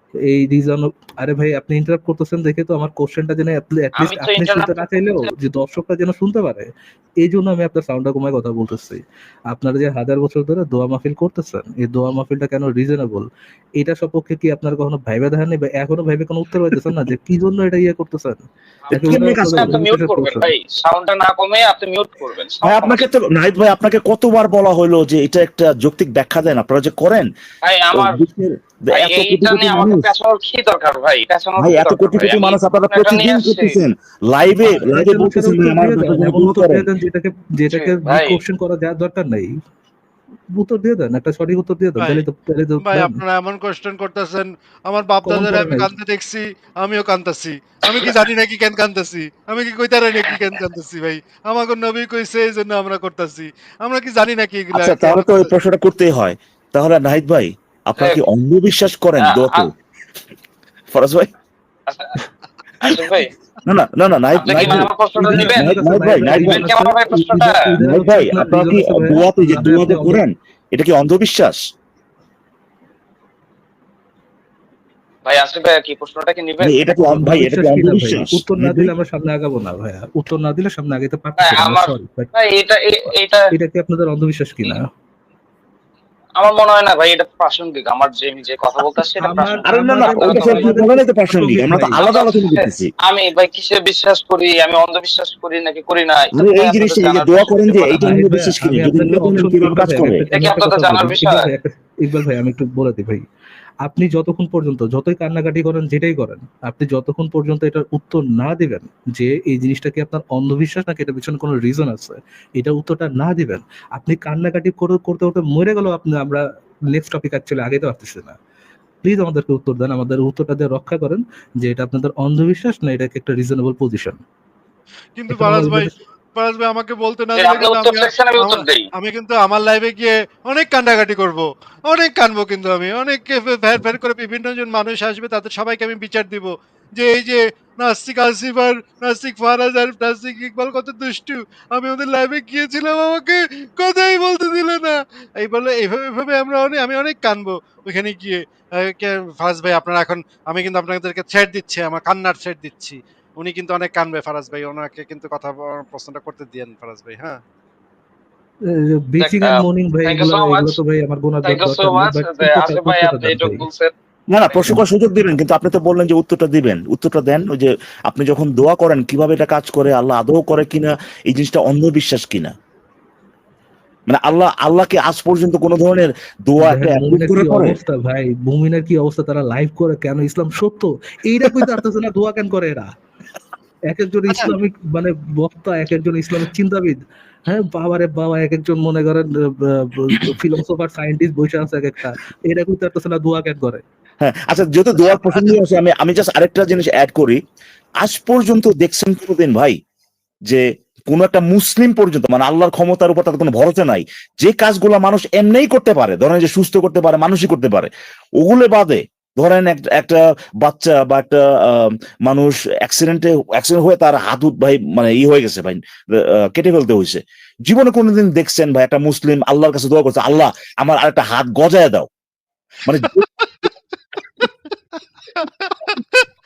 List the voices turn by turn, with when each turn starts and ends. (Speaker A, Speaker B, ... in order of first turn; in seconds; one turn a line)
Speaker A: 0.3-6.7
Speaker B: 4.0-5.3
Speaker A: 7.2-13.3
Speaker A: 13.8-20.5
Speaker B: 18.8-23.1
Speaker C: 18.9-19.8
Speaker C: 22.6-27.3
Speaker B: 27.6-28.2
Speaker C: 27.9-30.1
Speaker B: 28.9-33.8
Speaker C: 31.6-36.9
Speaker A: 34.6-39.5
Speaker B: 37.7-38.4
Speaker A: 40.5-43.2
Speaker D: 42.0-42.2
Speaker D: 42.8-55.5
Speaker A: 45.2-45.9
Speaker C: 54.7-59.7
Speaker B: 59.2-59.6
Speaker C: 60.9-61.3
Speaker B: 61.9-62.1
Speaker B: 62.8-63.3
Speaker C: 63.6-66.7
Speaker B: 64.4-65.7
Speaker A: 65.2-70.2
Speaker B: 66.3-67.6
Speaker C: 67.8-71.6
Speaker B: 75.2-76.8
Speaker C: 76.6-78.9
Speaker A: 77.1-82.3
Speaker B: 81.4-83.5
Speaker A: 83.5-84.9
Speaker B: 86.4-90.8
Speaker A: 89.2-92.0
Speaker C: 89.6-92.9
Speaker B: 92.0-98.0
Speaker C: 96.3-100.2
Speaker A: 98.0-103.2
Speaker B: 100.3-101.5
Speaker A: 103.8-118.3
Speaker A: 119.0-124.2
Speaker D: 125.2-157.4
Speaker A: 125.3-125.9
Speaker B: 127.3-128.8
Speaker A: 158.7-163.6
Speaker B: 159.2-160.8
Speaker B: 161.4-163.9
Speaker C: 164.3-172.5
Speaker C: 174.1-177.8
Speaker A: 176.6-182.9
Speaker A: 183.9-193.8
Speaker C: 194.2-197.4
Speaker C: 198.0-199.8
Speaker C: 200.5-222.1
Speaker C: 222.8-223.2
Speaker D: 225.4-226.2